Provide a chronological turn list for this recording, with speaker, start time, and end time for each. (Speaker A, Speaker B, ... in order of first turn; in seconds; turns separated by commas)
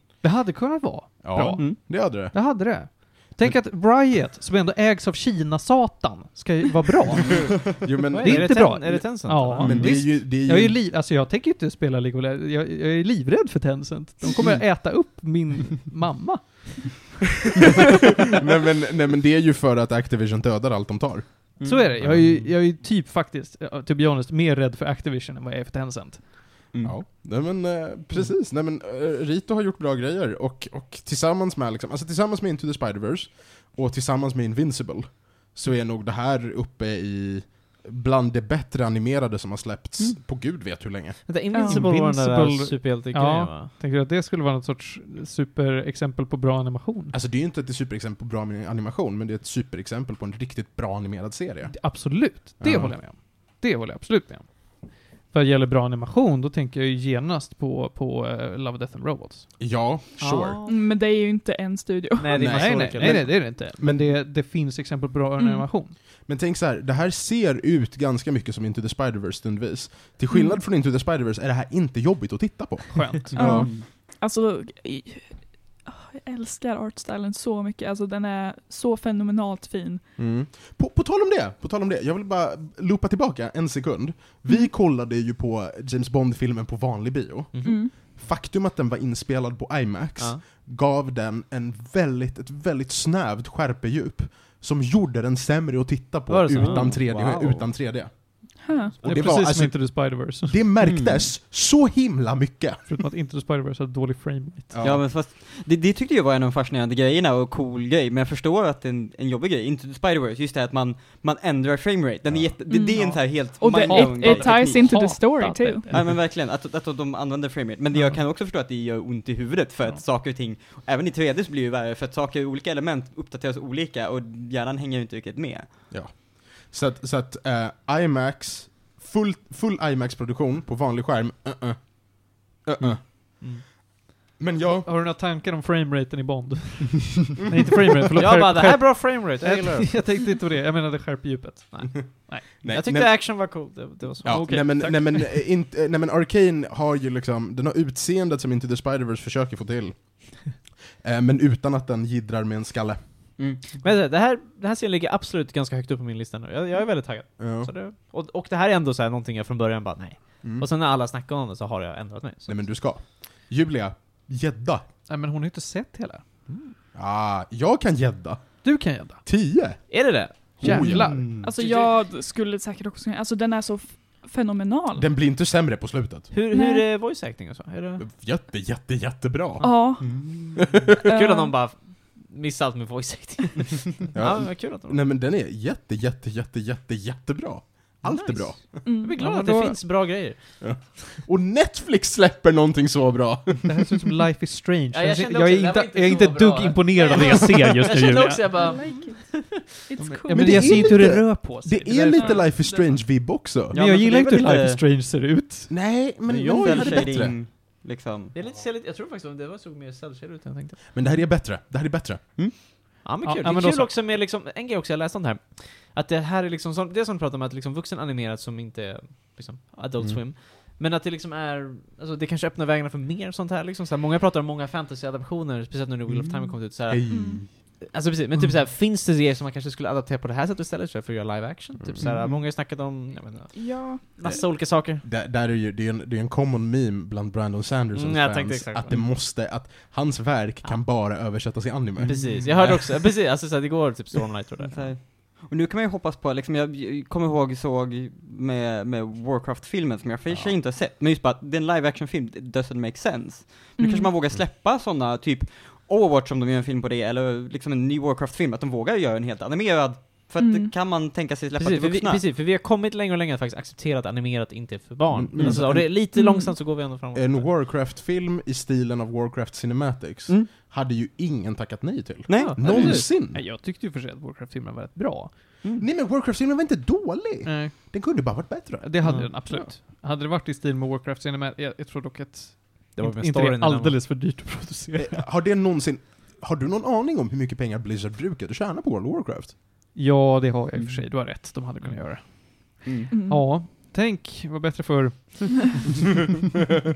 Speaker A: 0.2-17.7, Speaker B: 1.2-2.9, Speaker B: 7.8-8.9, Speaker C: 8.1-9.9, Speaker B: 9.6-10.8, Speaker D: 9.6-9.9, Speaker B: 14.3-14.6, Speaker B: 18.4-22.5, Speaker D: 21.6-21.9, Speaker A: 21.6-26.4, Speaker D: 26.7-27.0, Speaker B: 26.8-41.2, Speaker C: 41.2-43.7, Speaker E: 41.5-41.9, Speaker A: 41.6-47.1, Speaker B: 47.1-53.0, Speaker A: 51.7-59.5, Speaker B: 59.6-60.6, Speaker C: 60.2-60.8, Speaker E: 60.6-62.5, Speaker C: 62.2-63.3, Speaker B: 62.3-64.1, Speaker A: 62.4-66.0, Speaker E: 65.4-65.7, Speaker B: 66.2-73.7, Speaker E: 70.3-70.6, Speaker A: 72.9-73.7, Speaker E: 73.3-80.1, Speaker D: 73.3-73.9, Speaker B: 80.2-102.9, Speaker C: 87.5-87.8, Speaker E: 87.6-87.9, Speaker C: 96.3-97.7, Speaker E: 98.6-99.0, Speaker A: 99.0-100.7, Speaker D: 100.8-101.3, Speaker A: 102.8-104.8, Speaker B: 104.7-105.0, Speaker D: 104.8-115.1, Speaker B: 112.3-112.6, Speaker E: 112.7-115.9, Speaker A: 112.9-116.1, Speaker D: 115.9-125.8, Speaker B: 125.9-133.7, Speaker C: 133.4-133.6, Speaker B: 134.4-134.9, Speaker A: 134.8-142.4, Speaker C: 138.1-140.1, Speaker C: 141.7-144.7, Speaker B: 142.6-153.4, Speaker A: 144.2-145.3, Speaker D: 153.4-153.8, Speaker C: 153.8-162.7, Speaker B: 157.4-157.7, Speaker B: 160.4-160.7, Speaker B: 162.4-164.8, Speaker A: 165.1-166.5, Speaker C: 166.5-166.7, Speaker B: 166.9-171.5, Speaker A: 168.6-169.2, Speaker C: 169.9-171.9, Speaker A: 170.6-171.4, Speaker E: 171.4-175.1, Speaker B: 174.9-176.3, Speaker C: 176.3-178.0, Speaker E: 176.5-176.8, Speaker B: 178.0-181.0, Speaker E: 179.6-180.1, Speaker D: 180.0-180.8, Speaker E: 181.0-181.5, Speaker C: 181.0-185.0, Speaker B: 184.1-188.8, Speaker C: 188.0-190.9, Speaker E: 188.8-189.2, Speaker A: 189.2-189.8, Speaker B: 190.6-194.0, Speaker A: 193.7-198.5, Speaker C: 194.9-199.6, Speaker E: 198.5-201.2, Speaker A: 200.0-202.7, Speaker B: 200.3-203.7, Speaker E: 202.1-203.0, Speaker D: 203.7-204.8, Speaker A: 203.7-205.9, Speaker B: 205.7-207.3, Speaker C: 206.3-207.3, Speaker D: 206.5-208.3, Speaker C: 208.3-210.8, Speaker B: 210.9-212.2, Speaker C: 213.0-235.0, Speaker A: 213.2-213.9, Speaker B: 220.0-220.2, Speaker D: 226.1-226.4, Speaker B: 226.9-227.8, Speaker E: 227.1-227.4, Speaker B: 231.8-232.3, Speaker E: 233.5-234.4, Speaker B: 234.2-243.2, Speaker C: 237.9-239.0, Speaker D: 242.0-242.5, Speaker C: 242.0-244.9, Speaker D: 244.6-262.2, Speaker B: 250.3-250.6, Speaker E: 253.8-254.1, Speaker E: 260.4-260.7, Speaker C: 261.5-267.5, Speaker B: 265.1-265.9, Speaker D: 265.4-265.7, Speaker E: 266.1-266.6, Speaker B: 267.1-273.4, Speaker D: 272.3-273.0, Speaker C: 272.3-273.0, Speaker A: 272.6-275.6, Speaker B: 275.8-279.7, Speaker A: 277.4-285.3, Speaker C: 279.0-279.3, Speaker C: 282.9-284.0, Speaker B: 284.9-289.6, Speaker A: 289.9-296.1, Speaker D: 292.8-293.1, Speaker E: 293.1-293.5